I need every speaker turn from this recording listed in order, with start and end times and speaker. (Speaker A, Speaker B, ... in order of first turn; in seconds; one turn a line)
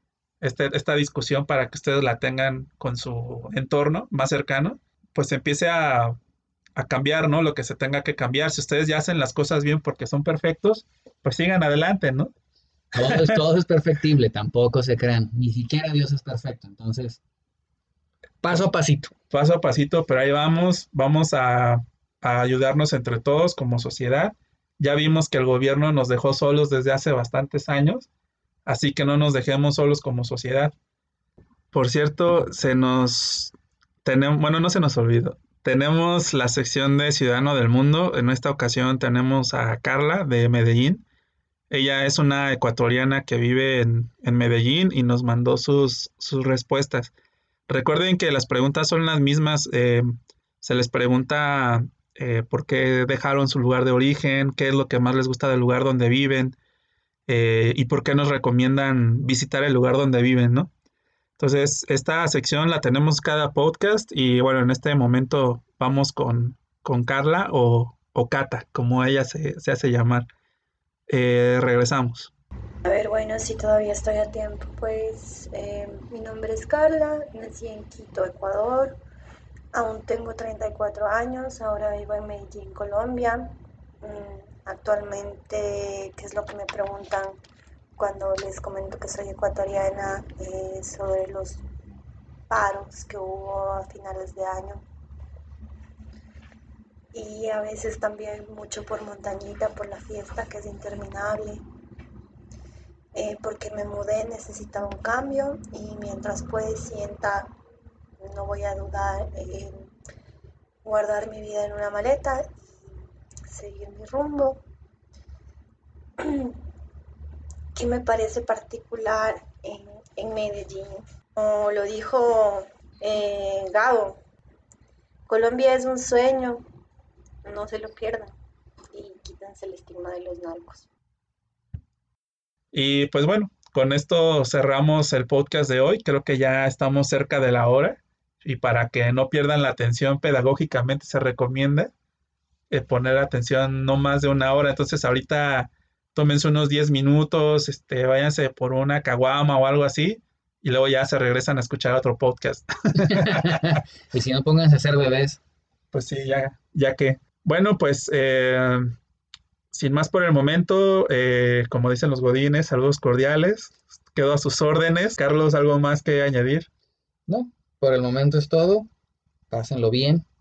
Speaker A: 0.4-6.2
Speaker A: 6.8-12.3
Speaker B: 12.9-17.2
Speaker A: 12.9-13.4
Speaker B: 18.4-19.1
Speaker A: 19.3-28.1
Speaker A: 28.6-30.7
Speaker A: 31.7-33.5
Speaker A: 34.0-41.0
Speaker A: 41.7-47.1
Speaker A: 47.7-56.6
Speaker A: 57.3-60.7
Speaker A: 61.4-70.3
Speaker A: 71.1-72.3
Speaker C: 72.8-79.0
Speaker C: 79.7-87.3
Speaker C: 88.0-91.6
Speaker C: 92.5-94.8
Speaker C: 97.1-101.6
Speaker C: 103.1-107.5
Speaker C: 108.2-109.9
Speaker C: 110.8-112.9
Speaker C: 113.5-114.6
Speaker C: 116.2-116.6
Speaker C: 117.7-124.2
Speaker C: 125.3-126.6
Speaker C: 127.4-128.3
Speaker C: 128.9-130.9
Speaker A: 132.7-141.9
Speaker A: 142.7-153.8
Speaker B: 153.0-155.4
Speaker A: 155.9-158.9
Speaker A: 159.7-166.7
Speaker B: 167.3-168.9
Speaker B: 169.5-170.2